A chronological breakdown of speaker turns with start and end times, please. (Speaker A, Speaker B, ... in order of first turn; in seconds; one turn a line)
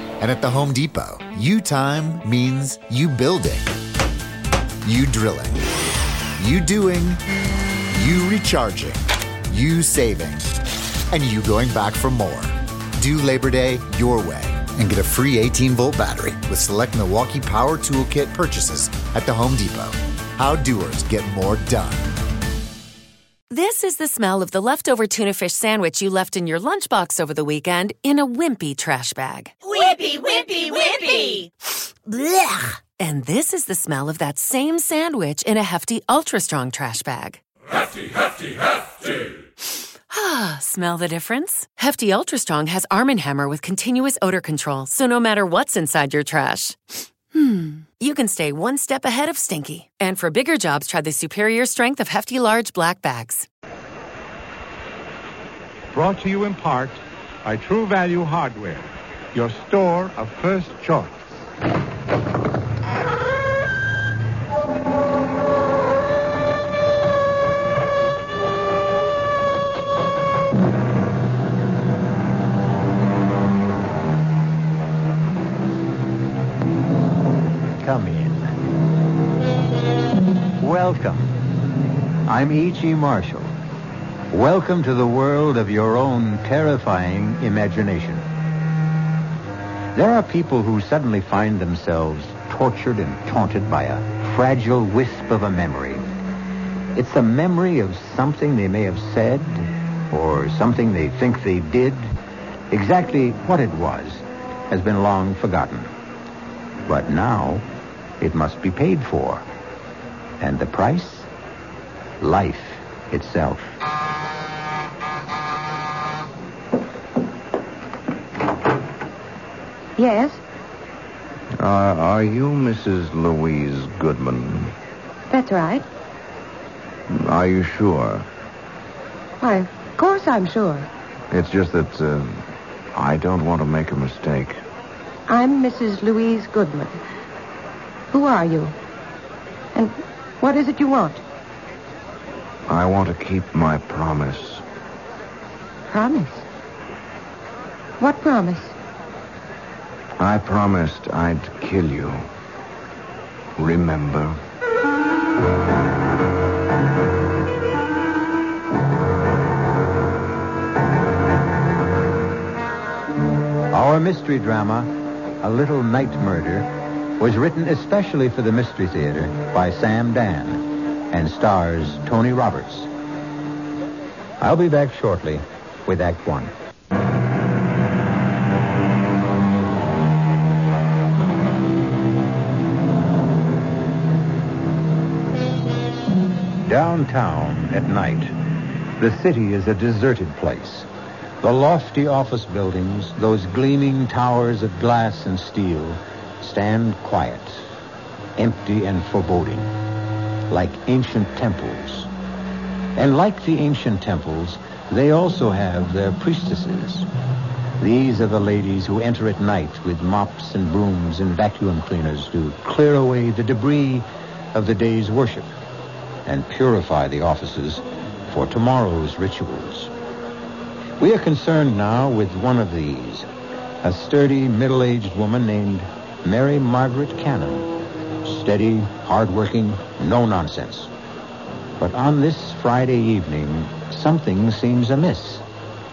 Speaker A: 0.2-3.7
Speaker A: 4.8-5.7
Speaker A: 6.4-7.2
Speaker A: 7.9-10.5
Speaker A: 11.1-22.1
Speaker B: 23.5-29.6
Speaker B: 33.0-37.4
Speaker B: 40.1-53.5
Speaker C: 55.9-61.3
Speaker D: 77.8-78.5
Speaker D: 80.6-81.4
Speaker D: 82.3-83.5
Speaker D: 84.3-88.2
Speaker D: 89.9-96.1
Speaker D: 96.9-102.1
Speaker D: 102.7-105.9
Speaker D: 106.9-107.7
Speaker D: 108.2-109.5
Speaker D: 110.4-111.3
Speaker D: 112.2-113.7
Speaker E: 120.0-120.4
Speaker F: 121.6-124.7
Speaker E: 125.3-125.8
Speaker F: 127.1-128.2
Speaker E: 129.4-130.9
Speaker F: 131.3-132.4
Speaker F: 132.9-134.6
Speaker E: 135.3-137.0
Speaker E: 138.1-138.8
Speaker E: 139.8-141.2
Speaker F: 142.7-144.6
Speaker E: 145.9-146.4
Speaker E: 148.0-148.7
Speaker F: 150.2-152.2
Speaker F: 153.6-154.4
Speaker D: 163.7-172.9
Speaker D: 174.4-176.5
Speaker D: 186.7-188.3
Speaker D: 189.0-190.9
Speaker D: 191.4-197.6
Speaker D: 198.4-199.7
Speaker D: 200.5-202.1
Speaker D: 203.0-207.1
Speaker D: 207.8-215.5
Speaker D: 216.2-219.9
Speaker D: 221.0-223.3
Speaker D: 223.8-227.7
Speaker D: 228.2-230.9
Speaker D: 231.8-235.4